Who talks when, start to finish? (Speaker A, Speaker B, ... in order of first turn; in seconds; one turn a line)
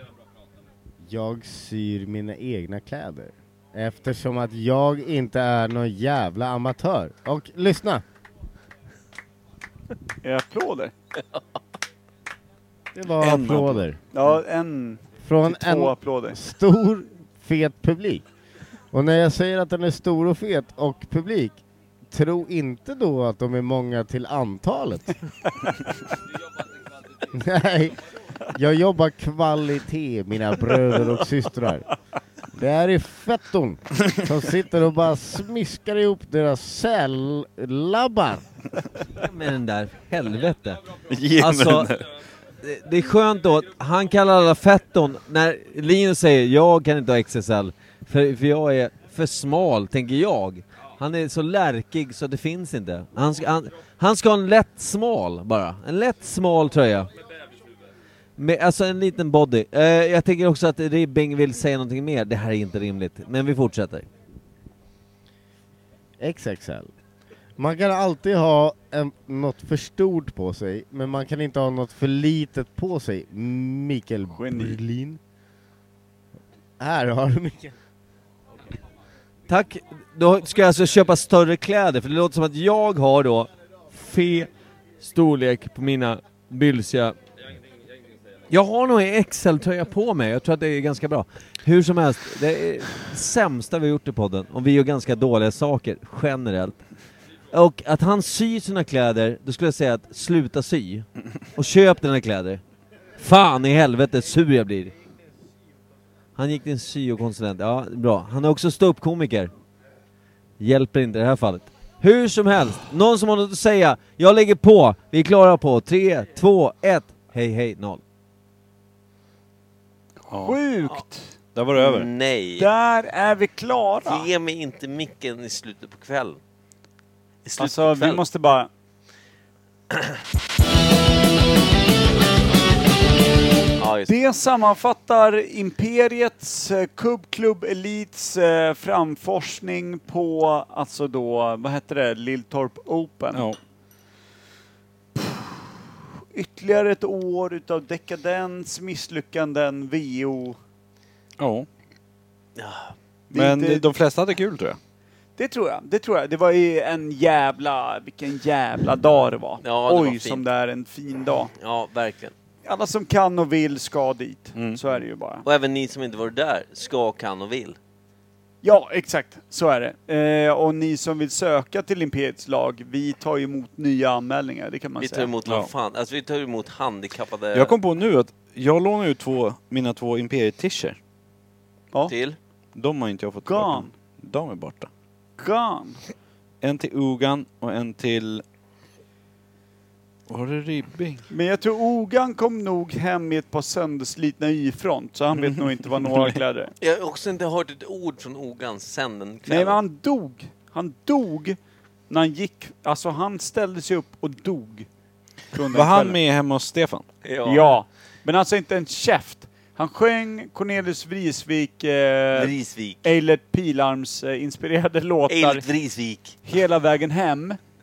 Speaker A: 1.1-8.0
Speaker B: 10.2-10.9
Speaker A: 12.9-14.0
Speaker C: 13.2-13.8
Speaker B: 14.1-16.4
Speaker A: 15.2-18.2
Speaker A: 18.9-25.2
Speaker A: 27.3-27.9
Speaker A: 28.5-31.9
Speaker A: 32.5-38.4
Speaker D: 39.1-40.8
Speaker C: 41.1-42.1
Speaker D: 41.4-41.9
Speaker D: 42.6-57.1
Speaker D: 58.4-64.1
Speaker A: 66.2-66.9
Speaker A: 67.6-75.2
Speaker B: 74.3-74.8
Speaker A: 76.8-77.7
Speaker D: 79.5-84.5
Speaker D: 85.0-87.2
Speaker D: 88.5-96.8
Speaker D: 97.5-102.6
Speaker D: 103.2-104.9
Speaker D: 106.3-109.5
Speaker D: 110.6-118.0
Speaker C: 120.3-120.6
Speaker B: 120.4-121.3
Speaker C: 121.5-122.1
Speaker E: 121.7-122.7
Speaker B: 122.6-124.3
Speaker E: 124.0-126.4
Speaker E: 127.4-128.2
Speaker B: 127.6-128.7
Speaker E: 133.8-134.1
Speaker B: 134.1-143.5
Speaker C: 143.3-143.6
Speaker B: 146.3-150.6
Speaker C: 151.4-151.7
Speaker E: 152.6-152.9
Speaker B: 153.3-153.9
Speaker C: 153.3-154.8
Speaker B: 155.4-161.5
Speaker E: 159.6-160.4
Speaker E: 161.5-162.3
Speaker B: 162.6-165.4
Speaker C: 164.5-164.8
Speaker E: 165.4-167.8
Speaker B: 168.6-175.3
Speaker E: 175.0-177.7
Speaker C: 177.5-180.9
Speaker E: 182.1-182.4
Speaker C: 182.7-184.9
Speaker B: 183.4-183.9
Speaker B: 185.4-186.0
Speaker C: 186.6-188.4
Speaker C: 190.3-191.2
Speaker B: 191.3-196.7
Speaker C: 195.3-196.4
Speaker E: 196.8-199.8
Speaker B: 199.5-201.6
Speaker B: 202.1-204.9
Speaker B: 205.5-206.2
Speaker C: 205.7-207.1
Speaker E: 207.2-207.7
Speaker B: 207.4-212.5
Speaker E: 212.3-213.0
Speaker B: 213.0-215.6
Speaker E: 215.3-216.3
Speaker B: 216.4-217.6